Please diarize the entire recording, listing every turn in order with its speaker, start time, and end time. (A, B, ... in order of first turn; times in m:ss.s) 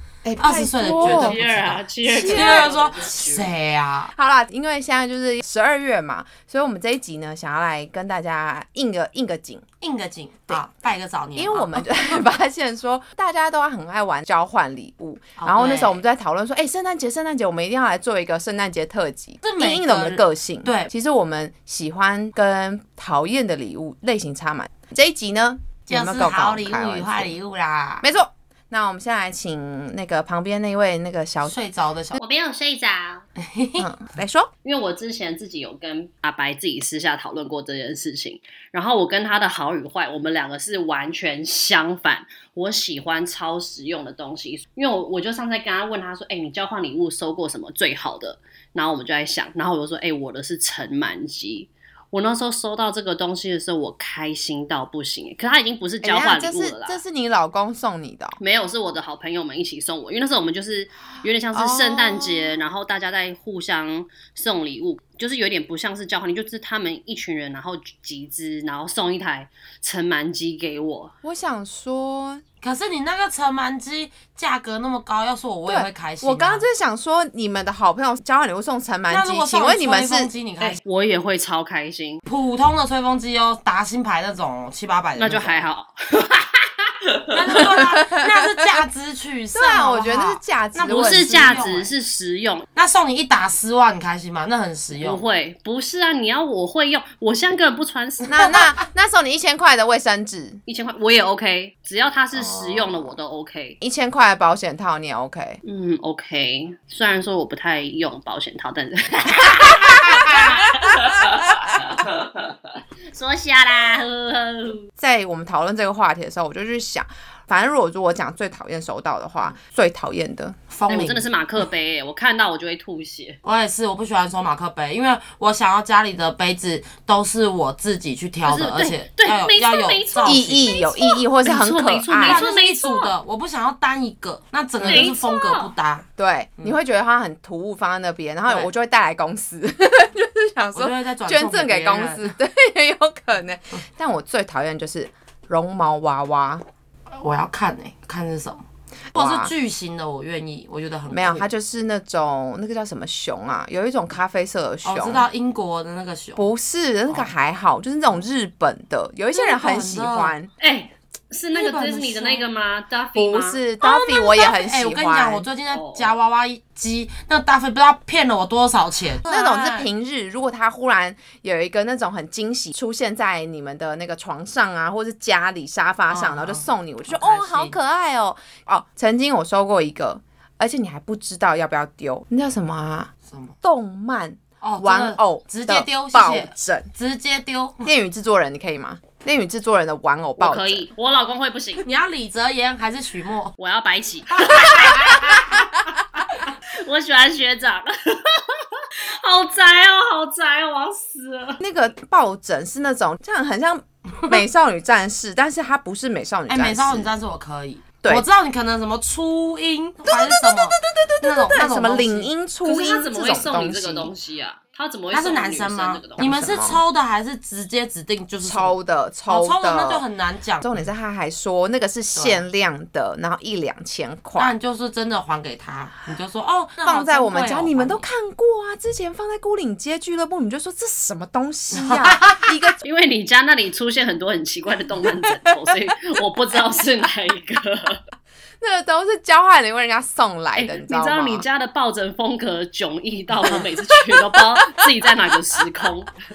0:00.2-0:01.4 A
0:00.4-0:04.1 B
0:00.8-0:03.5 C
0:02.0-0:03.0 A
0:04.1-0:09.6 A
0:09.8-0:12.0 B
0:11.4-0:27.4 A
0:15.4-0:16.0 B
0:19.4-0:20.9 B
0:25.9-0:28.1 B
0:28.0-0:31.6 A
0:31.4-0:32.2 B
0:32.2-0:33.2 C
0:33.4-0:33.9 B
0:33.8-0:34.5 A
0:34.6-0:57.0 C
0:56.0-0:58.4 A
0:58.4-1:11.1 C
1:01.5-1:02.6 A
1:11.2-1:12.4 A
1:12.6-1:16.6 B
1:15.7-1:20.3 A
1:19.1-1:20.8 B
1:20.6-1:22.2 C
1:22.2-1:25.6 B
1:25.2-1:27.6 C
1:27.3-1:31.9 B
1:27.6-1:28.7 A
1:29.5-1:31.7 A
1:30.9-1:32.7 C
1:32.8-1:35.2 B
1:35.0-1:38.7 C
1:38.3-1:40.6 A
1:40.6-1:43.8 C
1:42.3-1:43.2 A
1:43.8-1:45.6 A
1:45.6-1:52.6 C
1:53.1-1:54.9 C
1:55.0-2:00.6 A
2:00.7-2:01.3 B
2:00.9-2:03.4 C
2:03.4-2:10.7 B
2:08.4-2:13.1 C
2:10.2-2:12.4 A
2:12.2-2:16.0 B
2:14.8-2:15.1 A
2:14.8-2:15.7 C
2:16.2-2:26.6 A
2:20.7-2:22.3 B
2:27.1-2:31.5 B
2:29.1-2:29.5 A
2:31.1-2:35.3 A
2:34.8-2:36.5 B
2:36.4-2:40.5 A
2:39.3-2:40.3 B
2:40.6-2:43.6 C
2:41.5-2:42.5 B
2:43.1-2:45.5 A
2:43.8-2:49.9 B
2:45.7-2:46.1 C
2:49.2-3:03.1 A
2:56.1-2:57.8 B
3:03.3-3:03.5 B
3:03.6-3:06.9 A
3:04.6-3:07.9 B
3:07.8-3:10.9 A
3:10.4-3:11.8 C
3:11.8-3:13.5 B
3:13.6-3:15.9 C
3:14.4-3:15.6 B
3:16.4-3:21.6 C
3:21.6-3:27.1 A
3:26.5-3:32.3 B
3:30.0-3:34.1 A
3:32.6-3:36.3 C
3:35.1-3:38.8 B
3:36.2-3:36.8 A
3:38.4-3:40.0 A
3:39.3-3:40.7 B
3:40.6-3:44.5 A
3:42.1-3:42.4 B
3:44.4-3:48.0 B
3:46.8-3:52.8 A
3:51.7-3:52.4 B
3:52.8-3:58.0 C
3:58.6-4:01.4 A
4:00.6-4:06.2 C